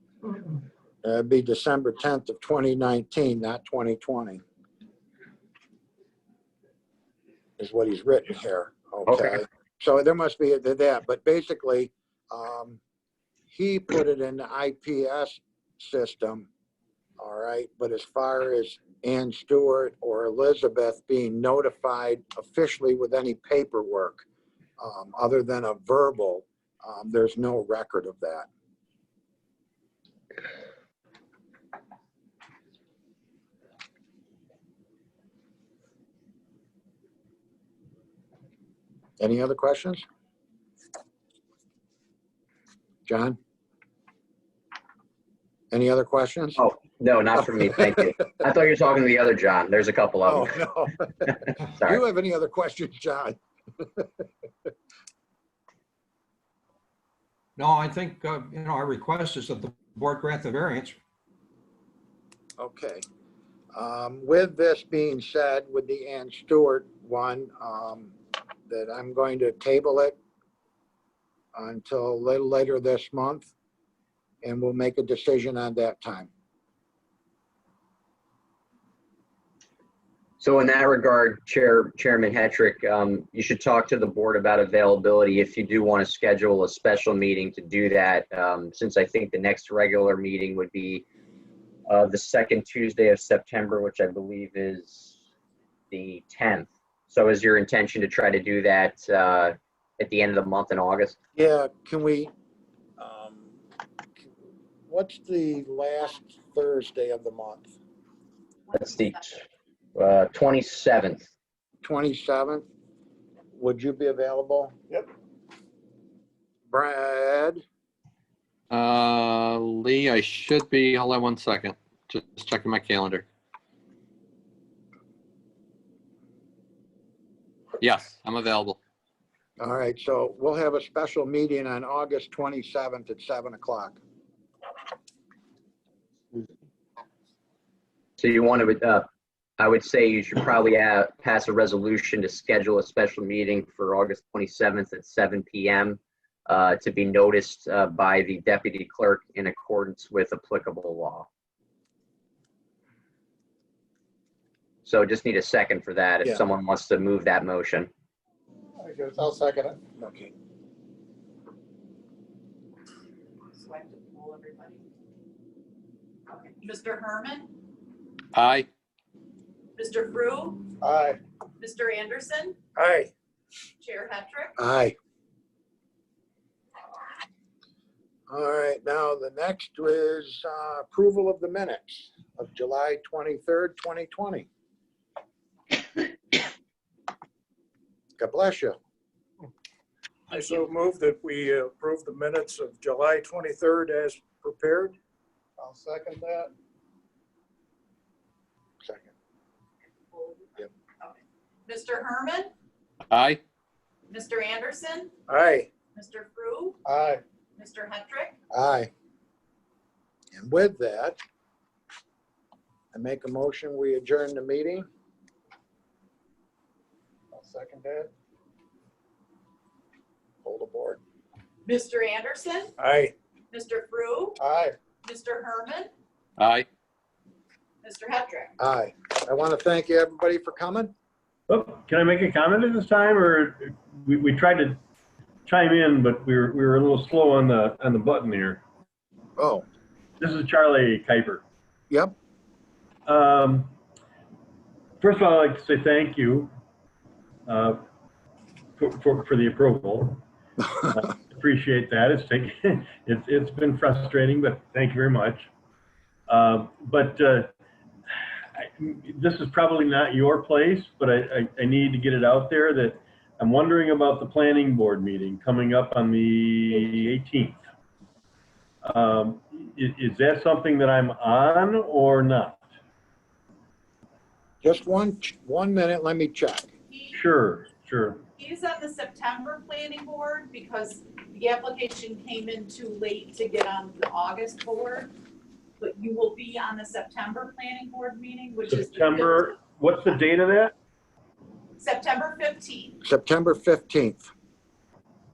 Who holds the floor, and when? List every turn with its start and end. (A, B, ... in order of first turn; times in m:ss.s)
0:01.0-0:04.4 A
0:07.6-0:12.8 A
0:09.1-0:09.4 B
0:13.5-0:16.5 A
0:17.2-0:24.2 A
0:24.8-0:28.5 A
0:39.2-0:40.0 A
0:43.1-0:43.4 A
0:45.7-0:46.6 A
0:46.6-0:50.5 B
0:50.2-0:54.1 A
0:51.6-0:52.0 B
0:57.6-1:01.0 C
1:02.6-1:03.0 A
1:03.7-1:08.2 A
1:08.7-1:10.2 A
1:11.5-1:13.5 A
1:14.4-1:16.3 A
1:20.4-1:31.0 B
1:31.9-1:35.2 B
1:35.9-1:41.2 B
1:41.3-1:42.3 A
1:43.0-1:43.5 A
1:44.9-1:47.7 A
1:48.6-1:49.4 D
1:48.7-1:49.4 B
1:49.9-1:51.3 B
1:51.8-1:52.6 A
1:53.6-1:54.8 A
1:56.7-1:57.6 A
1:58.7-2:03.2 E
2:07.8-2:08.8 E
2:09.6-2:14.0 A
2:18.2-2:19.1 B
2:19.6-2:31.3 B
2:34.8-2:37.9 B
2:38.8-2:39.8 F
2:39.8-2:40.3 A
2:43.5-2:44.8 D
2:46.5-2:47.5 D
2:48.3-2:48.7 E
2:49.8-2:50.7 D
2:50.8-2:51.2 F
2:51.6-2:52.6 D
2:52.7-2:53.1 F
2:53.8-2:54.6 D
2:54.6-2:55.0 A
2:58.3-3:04.5 A
3:08.2-3:08.8 A
3:10.3-3:15.0 F
3:15.6-3:16.5 F
3:18.8-3:19.1 A
3:20.0-3:22.5 D
3:23.1-3:23.4 E
3:24.1-3:25.1 D
3:25.3-3:25.7 F
3:25.9-3:26.8 D
3:26.8-3:27.2 F
3:27.6-3:28.4 D
3:28.5-3:28.9 A
3:30.3-3:31.2 A
3:32.9-3:34.8 A
3:37.3-3:38.1 F
3:40.4-3:41.0 A
3:41.6-3:42.7 D
3:42.8-3:43.1 F
3:43.5-3:44.4 D
3:44.4-3:44.7 F
3:45.0-3:45.9 D
3:46.4-3:46.6 E
3:47.8-3:48.5 D
3:48.6-3:50.9 A
3:51.5-3:54.8 G
3:55.4-3:58.6 G
3:59.4-3:59.6 A
4:00.2-4:01.4 G
4:01.9-4:02.1 A
4:03.0-4:03.7 G
4:05.0-4:06.5 G
4:07.5-4:07.8 G
4:08.8-4:10.2 G
4:10.9-4:15.5 G
4:16.3-4:17.5 G
4:18.6-4:27.6 G
4:28.8-4:32.6 G
4:34.6-4:36.7 A
4:36.9-4:37.2 D
4:37.1-4:38.2 G
4:38.4-4:45.1 D
4:45.8-4:49.5 D
4:48.7-4:50.7 G
4:51.8-4:53.0 D
4:53.0-4:54.3 A